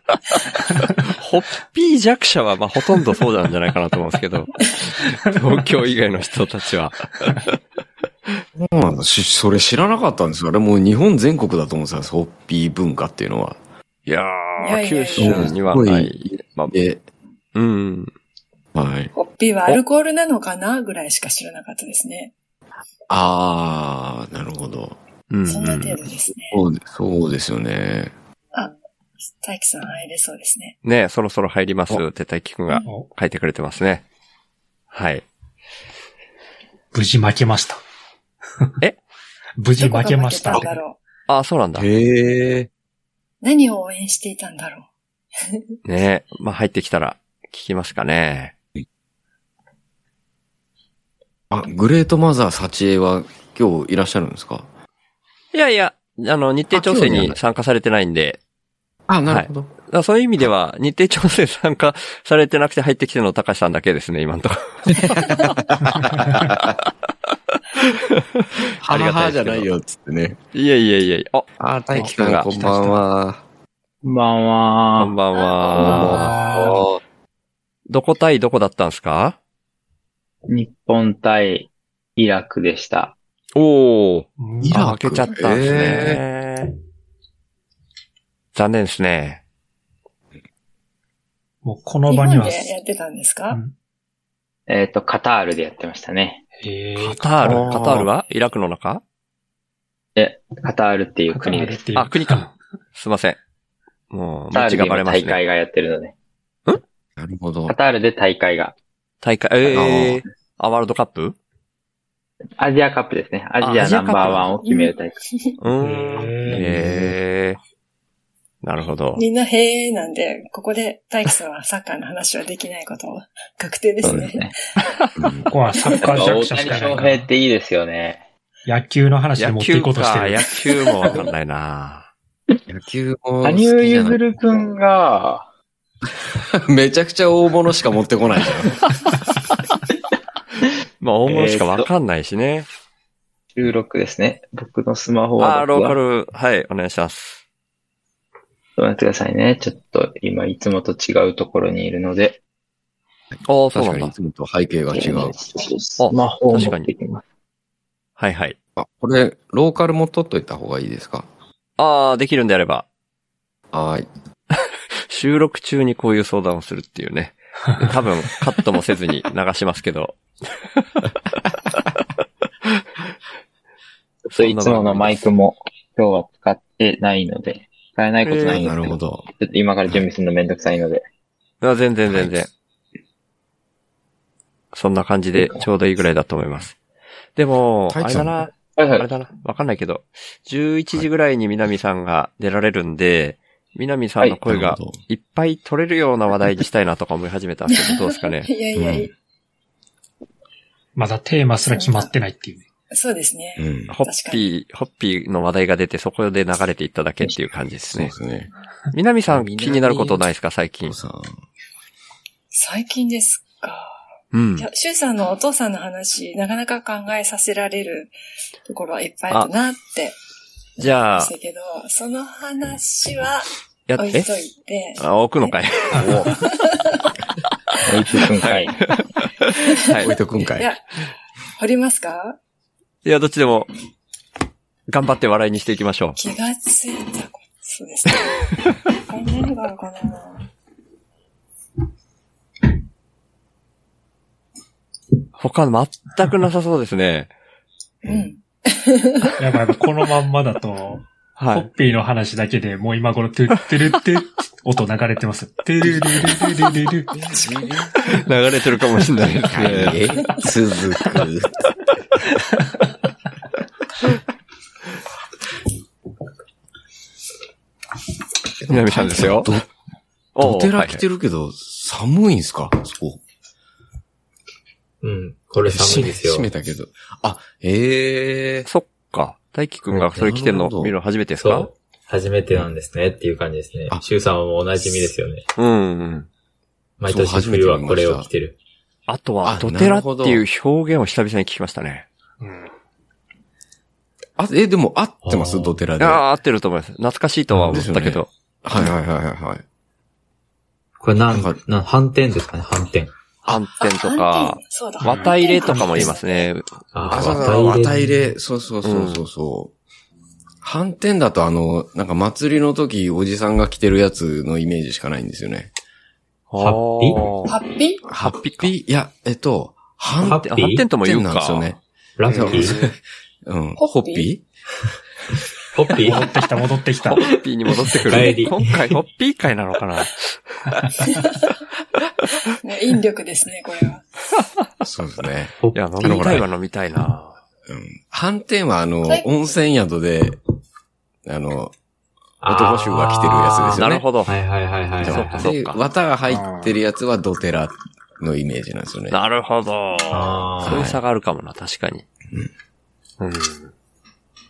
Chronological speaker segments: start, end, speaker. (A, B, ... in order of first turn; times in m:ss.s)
0:01.0-0:07.6 A
0:08.6-0:13.6 B
0:14.1-0:16.8 A
0:14.6-0:15.5 C
0:15.2-0:17.0 B
0:17.6-0:18.1 A
0:18.8-0:19.1 B
0:19.2-0:22.3 C
0:23.1-0:25.0 B
0:25.3-0:26.0 A
0:25.5-0:26.6 C
0:26.4-0:28.1 B
0:29.4-0:30.8 C
0:30.8-0:34.0 A
0:34.9-0:35.2 A
0:36.9-0:37.8 D
0:39.6-0:40.8 D
0:39.8-0:41.0 C
0:41.3-0:41.9 A
0:41.8-0:42.7 B
0:43.4-0:44.9 C
0:45.8-0:48.5 A
0:51.5-0:54.7 B
0:55.5-0:58.4 A
0:56.7-0:57.4 B
0:59.1-0:59.7 B
0:59.3-1:05.6 A
1:04.9-1:06.8 B
1:06.2-1:06.6 A
1:07.8-1:09.7 A
1:08.8-1:10.4 B
1:10.5-1:13.0 A
1:11.6-1:13.4 B
1:14.0-1:15.2 E
1:15.0-1:16.3 A
1:15.3-1:16.1 C
1:15.8-1:16.3 E
1:15.8-1:17.0 B
1:16.0-1:16.8 D
1:17.9-1:19.4 A
1:20.5-1:23.2 E
1:23.6-1:26.7 A
1:24.4-1:24.8 D
1:24.6-1:26.2 B
1:28.6-1:29.4 A
1:31.6-1:32.7 D
1:32.1-1:33.6 C
1:34.7-1:36.4 E
1:36.6-1:37.8 D
1:37.0-1:39.0 A
1:37.4-1:38.1 B
1:40.2-1:41.9 E
1:41.3-1:42.5 D
1:42.0-1:42.4 A
1:43.0-1:43.4 A
1:44.1-1:45.4 A
1:44.5-1:46.2 E
1:47.2-1:47.8 B
1:47.7-1:48.8 E
1:49.2-1:51.4 A
1:49.7-1:50.2 B
1:52.6-1:55.2 E
1:53.6-1:54.5 A
1:54.6-1:54.9 C
1:55.6-1:57.6 A
1:55.8-1:56.7 D
1:56.5-1:57.2 B
1:58.6-1:59.2 A
1:59.2-2:04.5 C
2:04.0-2:04.5 E
2:05.2-2:05.5 B
2:05.5-2:07.3 D
2:06.0-2:08.2 E
2:08.7-2:10.6 D
2:09.4-2:12.1 A
2:12.7-2:14.6 B
2:13.4-2:15.5 E
2:16.3-2:18.8 B
2:21.0-2:22.7 A
2:21.3-2:21.9 E
2:23.5-2:26.0 E
2:25.4-2:27.4 A
2:28.8-2:32.4 E
2:33.5-2:34.1 A
2:33.7-2:35.4 B
2:34.9-2:37.2 E
2:36.0-2:36.9 A
2:38.2-2:38.6 A
2:38.8-2:41.3 B
2:41.8-2:42.8 A
2:43.7-2:44.1 B
2:45.1-2:50.2 A
2:54.3-3:01.0 E
2:54.4-2:55.2 A
2:58.2-2:58.7 A
2:58.4-2:59.2 B
3:01.6-3:02.5 A
3:02.1-3:02.4 B
3:04.7-3:06.8 A
3:07.4-3:18.5 A
3:07.9-3:08.4 B
3:08.8-3:09.1 E
3:14.5-3:15.0 B
3:17.7-3:19.1 C
3:18.8-3:19.1 B
3:21.0-3:22.6 D
3:21.7-3:22.1 C
3:22.9-3:24.5 C
3:23.6-3:23.9 B
3:23.9-3:28.1 A
3:27.9-3:28.5 B
3:28.9-3:31.0 A
3:29.3-3:30.3 B
3:30.9-3:31.4 B
3:32.5-3:34.0 C
3:34.3-3:34.7 A
3:34.6-3:38.1 C
3:38.7-3:40.2 C
3:40.8-3:41.3 A
3:40.8-3:47.1 C
3:43.9-3:44.3 A
3:45.0-3:46.4 A
3:46.0-3:46.3 B
3:47.8-3:48.8 E
3:48.4-3:50.1 A
3:50.0-3:50.7 B
3:51.6-3:52.4 C
3:53.0-3:53.7 A
3:54.9-3:56.2 A
3:56.2-4:00.5 C
4:05.4-4:07.3 A
4:08.0-4:09.4 C
4:09.4-4:17.4 D
4:11.4-4:11.7 A
4:15.8-4:16.5 B
4:17.1-4:18.0 B
4:18.0-4:20.1 A
4:19.5-4:21.9 B
4:28.6-4:29.7 B
4:28.7-4:29.6 A
4:30.4-4:31.0 A
4:30.4-4:33.2 B
4:35.0-4:36.5 F
4:35.6-4:38.7 B
4:38.7-4:41.7 A
4:39.9-4:40.9 B
4:41.4-4:45.4 F
4:45.6-4:46.3 A
4:47.0-4:48.6 F
4:47.0-4:48.3 B
4:49.1-4:52.1 A
4:49.4-4:50.4 B
4:52.4-4:52.7 D
4:54.4-4:56.2 B
4:55.2-4:55.8 F
4:56.0-4:58.3 A
4:57.5-4:57.9 F
4:57.7-4:59.6 B
5:01.0-5:03.1 F
5:01.3-5:01.6 B
5:03.4-5:07.6 A
5:03.8-5:06.5 C
5:05.0-5:05.3 D
5:05.7-5:06.1 F
5:06.9-5:08.3 F
5:07.1-5:09.7 B
5:08.8-5:09.2 A
5:10.6-5:15.7 B
5:16.5-5:17.5 A
5:16.6-5:17.2 F
5:17.5-5:18.0 C
5:18.1-5:24.4 B
5:18.2-5:18.7 A
5:20.2-5:20.9 F
5:20.3-5:21.7 A
5:22.2-5:22.8 F
5:22.4-5:22.8 A
5:23.8-5:24.3 C
5:25.7-5:26.4 F
5:26.0-5:27.2 D
5:27.1-5:30.9 A
5:27.2-5:29.0 F
5:31.0-5:31.3 C
5:32.6-5:34.0 C
5:34.8-5:36.4 B
5:35.6-5:36.4 F
5:35.7-5:37.4 A
5:37.7-5:40.4 B
5:41.3-5:41.7 B
5:42.4-5:45.5 F
5:42.4-5:44.0 B
5:43.7-5:44.3 A
5:45.0-5:49.2 B
5:45.0-5:45.8 A
5:46.3-5:46.8 D
5:49.1-5:52.0 A
5:50.1-5:50.9 F
5:50.6-5:51.0 B
5:53.2-5:53.7 A